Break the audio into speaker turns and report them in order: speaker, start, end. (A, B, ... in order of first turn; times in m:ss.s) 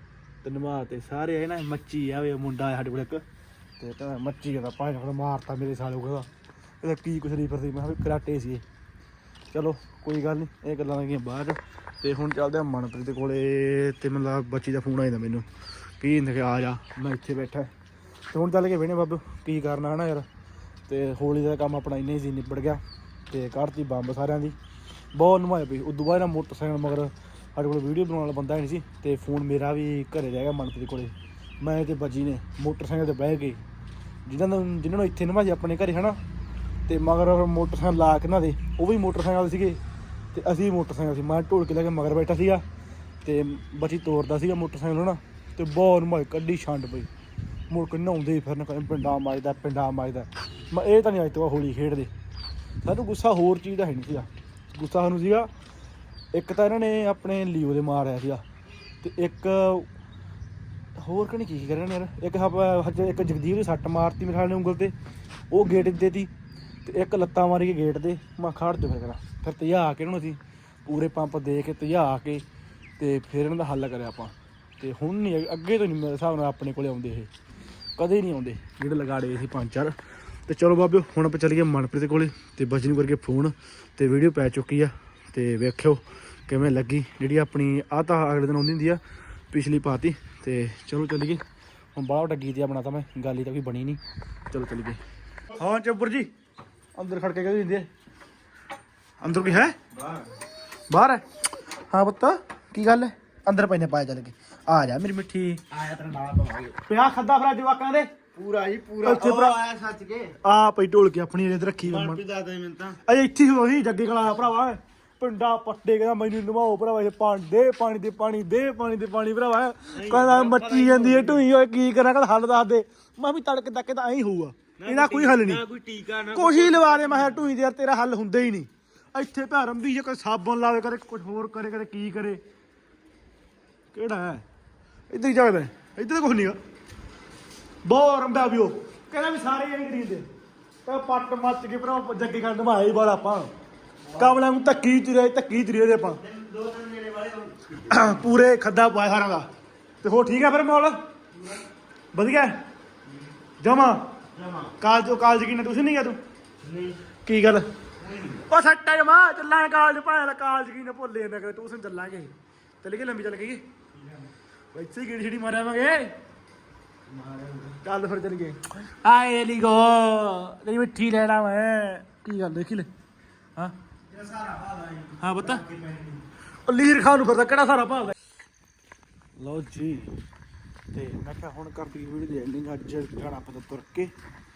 0:00.4-0:03.2 A
0:03.8-0:06.3 A
0:06.8-0:08.6 A
0:09.5-0:15.4 A
0:16.0-0:17.7 A
0:18.3-0:20.3 A
0:20.9-0:24.6 A
0:25.1-0:33.6 A
0:34.2-0:36.2 A
0:36.9-0:39.8 A
0:40.3-0:42.6 A
0:43.2-0:47.1 A
0:47.7-0:52.1 A
0:52.8-0:55.5 A
0:56.3-0:58.4 A
0:59.0-0:59.9 A
1:01.0-1:04.9 A
1:05.5-1:06.3 A
1:06.8-1:12.4 A
1:13.0-1:17.3 A
1:18.0-1:20.0 A
1:20.5-1:31.4 A
1:31.9-1:34.0 A
1:34.5-1:35.0 A
1:35.6-1:36.3 A
1:36.9-1:37.9 A
1:39.2-1:39.8 A
1:39.9-1:40.2 B
1:40.9-1:41.2 A
1:41.9-1:45.7 A
1:45.7-1:46.7 B
1:46.8-1:48.2 A
1:48.3-1:50.3 B
1:49.0-1:49.6 A
1:50.4-1:52.2 A
1:51.8-1:53.0 B
1:53.0-2:05.6 A
1:59.9-2:01.4 B
2:04.8-2:07.2 B
2:06.3-2:12.4 A
2:13.9-2:14.4 A
2:15.1-2:16.6 A
2:17.8-2:20.2 A
2:20.8-2:23.5 A
2:24.1-2:26.2 A
2:26.2-2:27.7 B
2:27.8-2:29.5 A
2:30.0-2:31.0 A
2:32.1-2:32.6 A
2:33.6-2:34.0 A
2:34.4-2:34.7 B
2:34.8-2:36.2 A
2:36.6-2:37.0 B
2:37.2-2:37.6 A
2:38.0-2:38.4 B
2:38.4-2:43.6 A
2:44.7-2:46.2 A
2:47.1-2:47.8 B
2:47.8-2:52.9 A
2:54.1-2:56.2 B
2:55.2-2:55.6 A
2:56.6-2:58.1 A
2:59.4-3:00.2 A
3:00.9-3:04.1 A